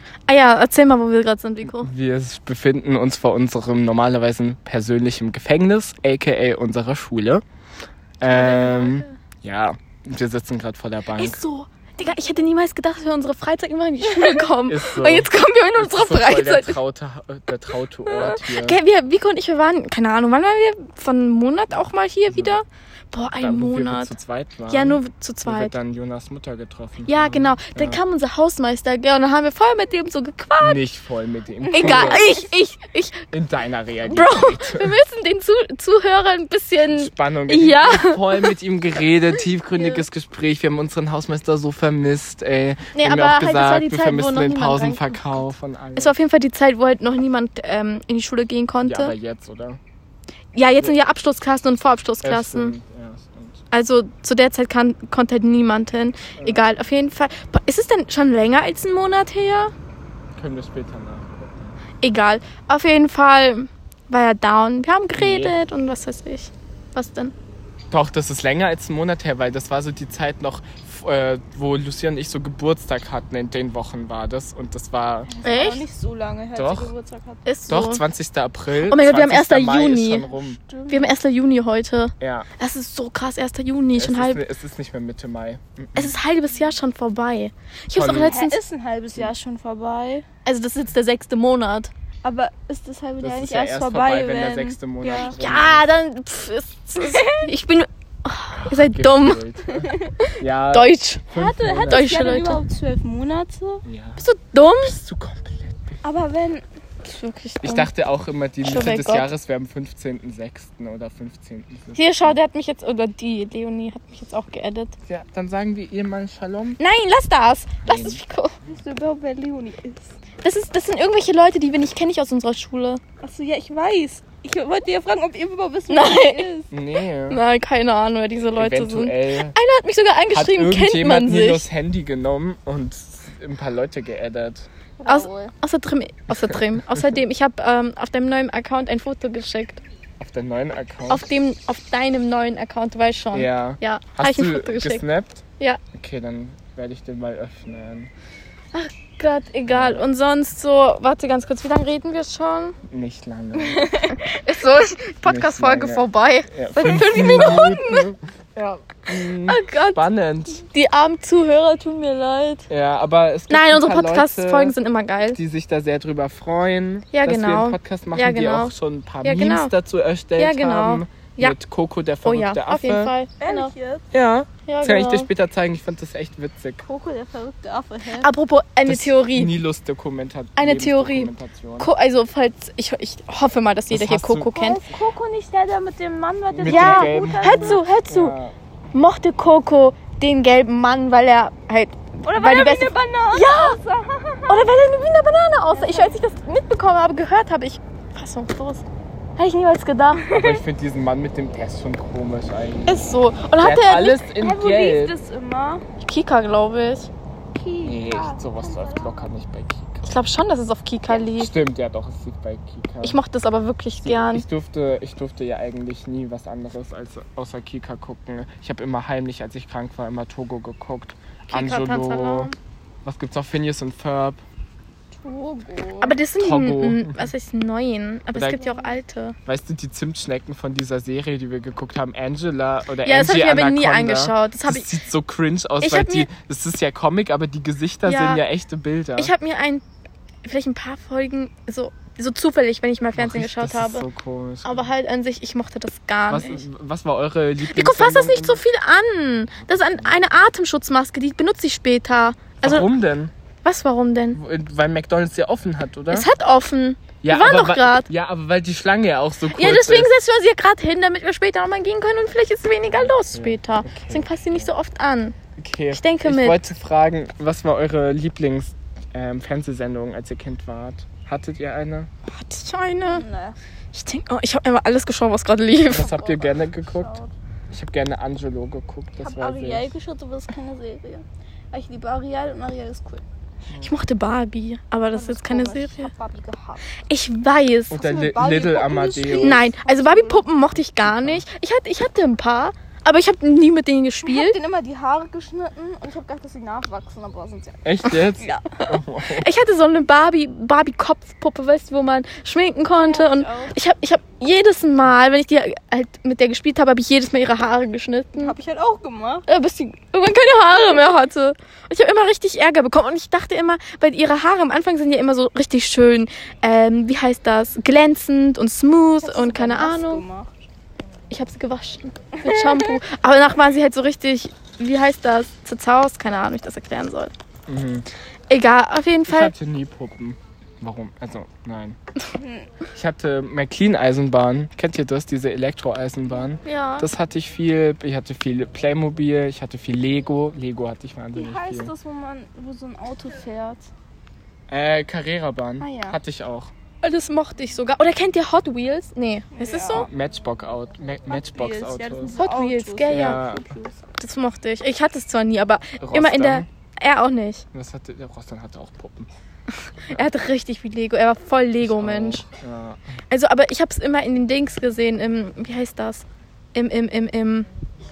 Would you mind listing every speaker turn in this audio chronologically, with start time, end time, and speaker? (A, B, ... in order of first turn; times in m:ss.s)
0:00.3-0:01.9 A
0:01.6-0:07.4 B
0:08.2-0:11.4 B
0:08.2-0:09.1 A
0:11.2-0:16.8 A
0:14.6-0:18.8 B
0:18.1-0:24.1 A
0:22.3-0:22.6 B
0:23.4-0:28.0 B
0:24.7-0:25.7 A
0:27.0-0:30.8 A
0:30.6-0:32.4 B
0:31.7-0:32.4 C
0:31.7-0:33.3 A
0:33.3-0:35.0 B
0:34.1-0:38.5 A
0:36.9-0:46.2 B
0:42.9-0:45.4 A
0:46.0-0:49.1 A
0:48.8-0:49.8 B
0:50.5-0:52.7 A
0:52.2-0:53.6 B
0:53.7-0:59.7 A
0:56.4-0:56.7 B
1:00.3-1:01.7 B
1:02.0-1:07.3 A
1:05.2-1:05.6 B
1:07.9-1:15.3 B
1:15.3-1:17.4 C
1:15.4-1:15.8 A
1:16.5-1:16.9 B
1:17.4-1:18.0 A
1:17.7-1:20.6 B
1:18.8-1:20.3 A
1:20.6-1:21.1 C
1:20.9-1:24.4 A
1:22.2-1:22.5 B
1:23.9-1:26.1 B
1:26.0-1:28.6 A
1:27.9-1:28.4 B
1:28.2-1:30.2 C
1:30.4-1:31.9 A
1:32.2-1:35.4 C
1:33.2-1:35.8 B
1:35.2-1:39.4 A
1:37.0-1:37.5 C
1:38.6-1:42.2 B
1:39.7-1:40.1 C
1:40.3-1:41.2 A
1:41.3-1:43.8 C
1:41.9-1:42.6 A
1:43.8-1:44.2 B
1:44.2-1:45.0 A
1:44.8-1:46.0 B
1:46.0-1:46.6 C
1:47.0-1:47.9 A
1:47.6-1:52.4 B
1:48.6-1:49.2 A
1:51.9-1:54.9 A
1:55.0-1:56.8 B
1:56.8-1:58.5 A
1:57.8-1:58.2 B
1:58.6-2:00.1 C
2:00.4-2:03.0 A
2:03.2-2:06.7 C
2:05.9-2:06.5 A
2:06.7-2:07.4 B
2:07.3-2:11.6 A
2:08.5-2:09.6 B
2:10.3-2:14.7 B
2:15.0-2:15.5 C
2:15.0-2:19.8 A
2:20.2-2:21.2 B
2:21.1-2:25.0 A
2:23.3-2:28.1 B
2:28.7-2:32.8 A
2:29.7-2:30.0 B
2:32.9-2:34.0 B
2:33.6-2:34.2 C
2:34.1-2:38.0 A
2:35.2-2:40.6 B
2:36.8-2:37.9 C
2:39.4-2:42.7 A
2:42.7-2:44.8 B
2:43.5-2:45.4 A
2:45.3-2:53.1 B
2:47.1-2:49.7 A
2:50.4-2:51.6 A
2:52.2-2:53.7 A
2:53.4-2:54.0 C
2:54.1-2:56.8 B
2:54.7-2:55.3 A
2:56.8-2:58.3 C
2:58.2-2:59.5 A
2:58.8-3:01.9 B
3:00.6-3:04.8 A
3:03.9-3:04.6 B
3:04.5-3:07.8 C
3:06.5-3:08.5 B
3:06.7-3:08.3 A
3:08.9-3:13.8 A
3:12.2-3:14.7 C
3:14.5-3:18.8 A
3:15.7-3:16.2 C
3:19.4-3:20.2 A
3:20.1-3:20.6 C
3:20.3-3:25.2 B
3:22.9-3:24.2 A
3:24.3-3:25.8 C
3:26.0-3:27.1 A
3:27.5-3:29.3 C
3:27.8-3:30.1 B
3:30.0-3:31.5 A
3:31.3-3:33.2 B
3:33.0-3:34.4 A
3:34.0-3:44.4 B
3:41.5-3:42.6 A
3:45.1-3:46.2 C
3:46.0-3:49.4 A
3:46.4-3:47.3 B
3:48.3-3:48.6 B
3:48.6-3:48.9 C
3:49.4-3:59.3 B
3:53.0-3:54.9 A
3:55.8-3:56.3 A
3:58.0-3:58.4 A
3:59.2-3:59.8 A
4:00.4-4:04.0 A
4:03.2-4:04.9 B
4:04.6-4:06.6 A
4:06.3-4:08.6 B
4:07.7-4:12.9 A
4:09.5-4:10.2 B
4:12.6-4:13.3 B
4:13.6-4:14.4 A
4:14.3-4:16.3 B
4:16.1-4:18.1 A
4:17.2-4:20.1 B
4:19.5-4:25.4 A
4:22.8-4:24.7 B
4:25.6-4:32.1 B
4:25.9-4:26.7 A
4:32.3-4:33.2 A
4:33.1-4:33.6 C
4:33.9-4:36.2 A
4:35.9-4:37.2 B
4:36.0-4:37.3 C
4:37.7-4:39.9 B
4:39.2-4:43.2 C
4:43.8-4:46.1 A
4:45.1-4:46.8 C
4:47.1-4:48.0 A
4:47.9-4:49.6 B
4:47.9-4:50.5 C
4:49.4-4:54.6 A
4:51.0-4:51.4 B
4:54.2-4:58.6 C
4:57.8-4:59.5 B
4:58.7-5:08.5 A
5:02.9-5:03.7 C
5:08.4-5:09.4 C
5:09.5-5:20.2 A
5:19.2-5:20.6 C
5:21.3-5:27.3 A
5:22.4-5:23.0 C
5:27.7-5:28.1 B
5:28.5-5:29.5 A
5:29.3-5:32.0 B
5:32.4-5:32.7 C
5:32.9-5:41.9 B
5:36.6-5:37.1 A
5:41.3-5:43.9 C
5:44.7-5:46.7 B
5:45.8-5:46.2 C
5:47.0-5:50.1 A
5:49.6-5:50.1 C
5:49.9-5:52.3 B
5:51.3-5:54.0 C
5:52.4-5:53.4 A
5:53.1-5:53.7 B
5:54.2-5:57.6 A
5:56.0-5:56.6 B
5:57.7-5:59.3 B
5:59.9-6:02.4 A
6:01.8-6:03.1 B
6:03.3-6:07.7 A